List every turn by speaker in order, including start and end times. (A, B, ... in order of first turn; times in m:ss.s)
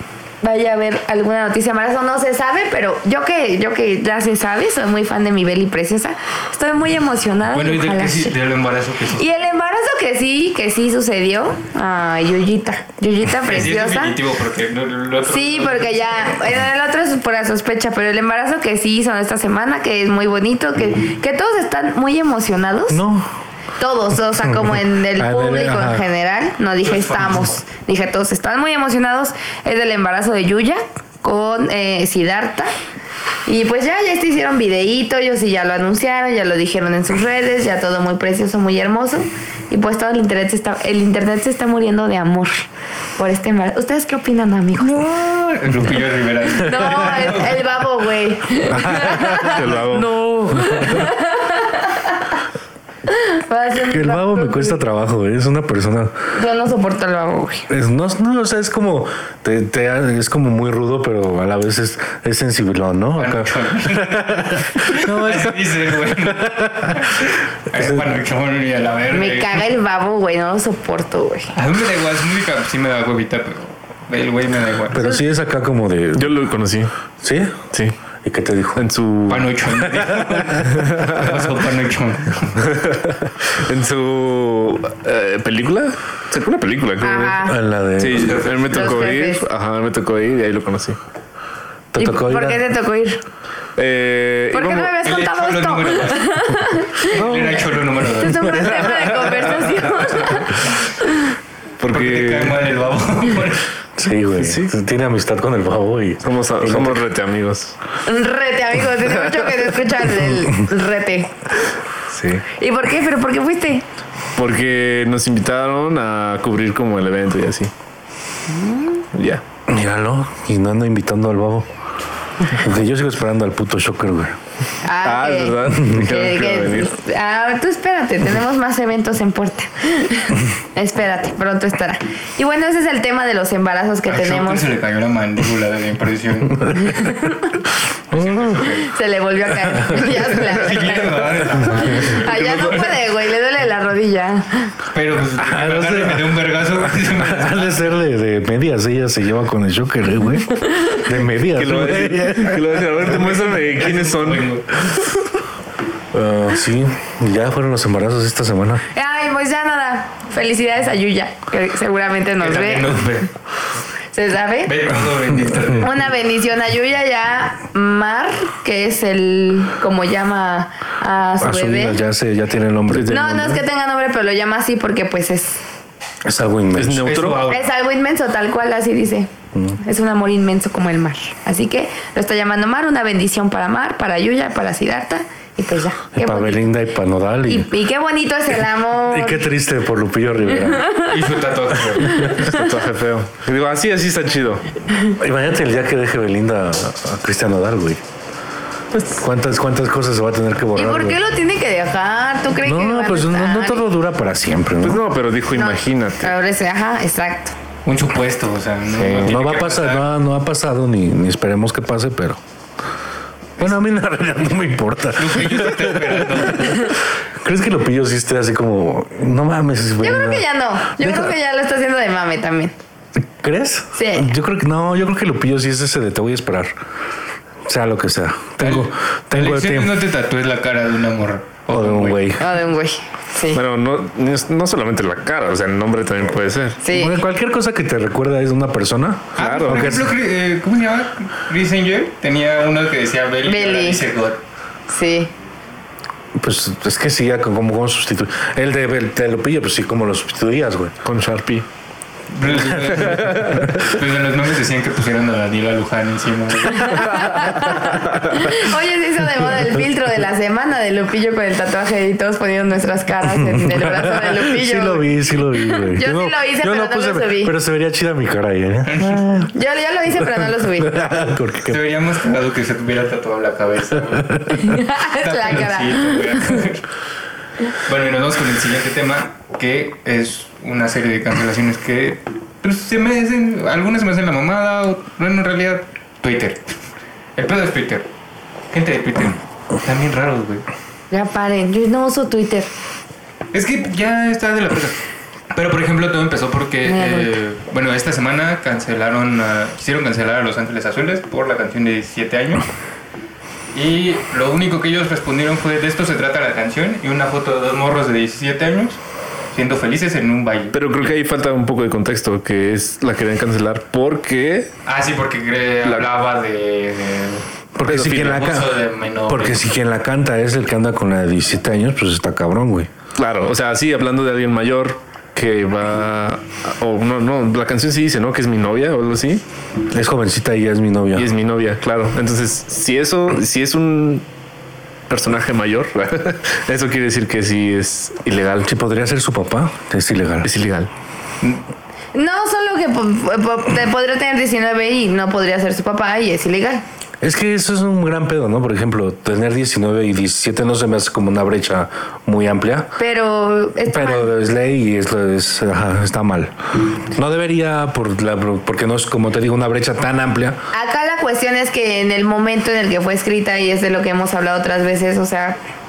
0:00.4-0:08.3 A
0:07.5-0:09.3 B
0:09.2-0:14.2 A
0:13.4-0:16.4 B
0:15.3-0:23.0 A
0:22.9-0:23.3 C
0:23.8-0:32.7 A
0:24.4-0:26.0 C
0:26.8-0:27.5 B
0:33.4-0:42.6 A
0:43.2-0:45.0 A
0:44.8-0:47.7 B
0:46.6-0:52.2 A
0:48.7-0:50.2 D
0:48.7-0:50.9 C
0:53.1-0:54.8 A
0:53.8-0:56.2 C
0:56.3-0:57.7 A
0:57.7-1:08.2 C
1:03.2-1:09.7 B
1:09.1-1:11.5 A
1:11.5-1:15.1 B
1:14.9-1:16.4 C
1:16.2-1:16.9 D
1:17.2-1:17.6 C
1:18.2-1:18.8 C
1:18.8-1:19.6 D
1:19.3-1:22.6 B
1:19.8-1:20.8 C
1:20.8-1:21.3 D
1:22.6-1:31.0 D
1:27.0-1:27.6 A
1:27.4-1:28.5 C
1:28.2-1:29.0 B
1:28.6-1:29.4 A
1:31.9-1:32.6 C
1:32.0-1:33.2 A
1:33.8-1:34.9 D
1:34.5-1:37.2 A
1:35.0-1:39.0 B
1:37.1-1:37.6 D
1:38.2-1:40.6 A
1:38.4-1:40.4 D
1:41.8-1:42.6 D
1:41.9-1:43.6 B
1:44.0-1:47.0 C
1:44.3-1:44.7 D
1:46.2-1:47.8 D
1:48.0-1:51.3 A
1:49.0-1:49.6 D
1:52.1-1:52.4 D
1:52.6-1:53.8 A
1:54.4-1:57.7 D
1:58.5-1:59.0 A
1:59.1-1:59.4 D
1:59.7-2:01.7 C
2:02.5-2:04.4 C
2:04.8-2:14.7 A
2:05.0-2:06.9 D
2:14.1-2:16.8 B
2:16.6-2:17.1 C
2:16.8-2:17.4 A
2:18.1-2:18.9 B
2:18.1-2:18.6 C
2:18.8-2:21.1 A
2:19.6-2:20.2 C
2:20.2-2:22.9 B
2:21.9-2:24.7 A
2:22.2-2:22.9 D
2:24.9-2:27.9 B
2:25.4-2:33.0 C
2:31.5-2:34.5 D
2:33.0-2:34.7 B
2:36.1-2:38.8 C
2:38.9-2:43.0 A
2:42.4-2:43.3 B
2:44.1-2:44.7 A
2:44.7-2:46.0 B
2:45.8-2:52.0 A
2:51.4-2:53.6 C
2:52.9-2:53.5 D
2:53.1-2:55.6 A
2:56.2-2:57.3 C
2:56.8-2:57.5 D
2:57.0-2:57.7 B
2:57.5-3:06.7 A
3:06.2-3:07.7 C
3:07.5-3:09.5 A
3:09.1-3:10.9 C
3:10.7-3:11.1 A
3:11.0-3:12.3 B
3:12.2-3:12.5 A
3:12.3-3:14.7 D
3:15.1-3:18.0 C
3:18.9-3:19.2 D
3:19.2-3:21.2 C
3:20.7-3:23.8 A
3:22.6-3:25.0 C
3:24.8-3:26.4 D
3:25.5-3:27.5 A
3:27.8-3:30.0 B
3:28.9-3:32.4 C
3:33.6-3:41.4 C
3:35.2-3:36.9 B
3:40.0-3:42.7 A
3:43.3-3:46.7 C
3:43.9-3:44.3 A
3:47.6-3:50.0 C
3:48.6-3:52.3 B
3:51.7-3:52.4 C
3:52.4-3:53.6 A
3:53.5-3:56.8 D
3:56.8-3:57.2 A
3:56.9-4:00.1 C
3:59.4-4:04.4 B
3:59.4-4:00.0 D
4:03.4-4:04.0 A
4:04.9-4:05.3 A
4:06.4-4:10.9 C
4:11.0-4:11.7 D
4:12.3-4:17.8 B
4:12.6-4:13.8 D
4:17.0-4:25.1 A
4:23.3-4:29.5 C
4:25.9-4:27.5 A
4:28.8-4:29.4 B
4:29.5-4:31.0 A
4:30.4-4:31.8 C
4:31.6-4:34.6 B
4:34.2-4:34.4 C
4:34.5-4:36.6 A
4:35.2-4:36.8 B
4:37.8-4:46.7 B
4:47.4-4:48.0 B
4:48.7-4:50.6 B
4:51.1-4:52.7 A
4:53.5-4:55.0 B
4:55.5-5:02.6 B
4:56.8-4:57.3 A
5:03.7-5:09.0 B
5:09.5-5:10.8 B
5:10.7-5:14.7 D
5:14.8-5:19.6 B
5:17.8-5:22.9 C
5:17.9-5:18.3 D
5:23.2-5:29.4 D
5:29.9-5:31.3 C
5:31.2-5:34.2 D
5:35.1-5:38.7 D
5:38.6-5:40.5 C
5:40.4-5:40.9 D
5:42.1-5:46.8 A
5:47.2-5:53.0 C
5:53.0-5:54.3 A
5:53.9-5:56.5 C
5:57.1-6:00.6 C
6:00.7-6:05.6 A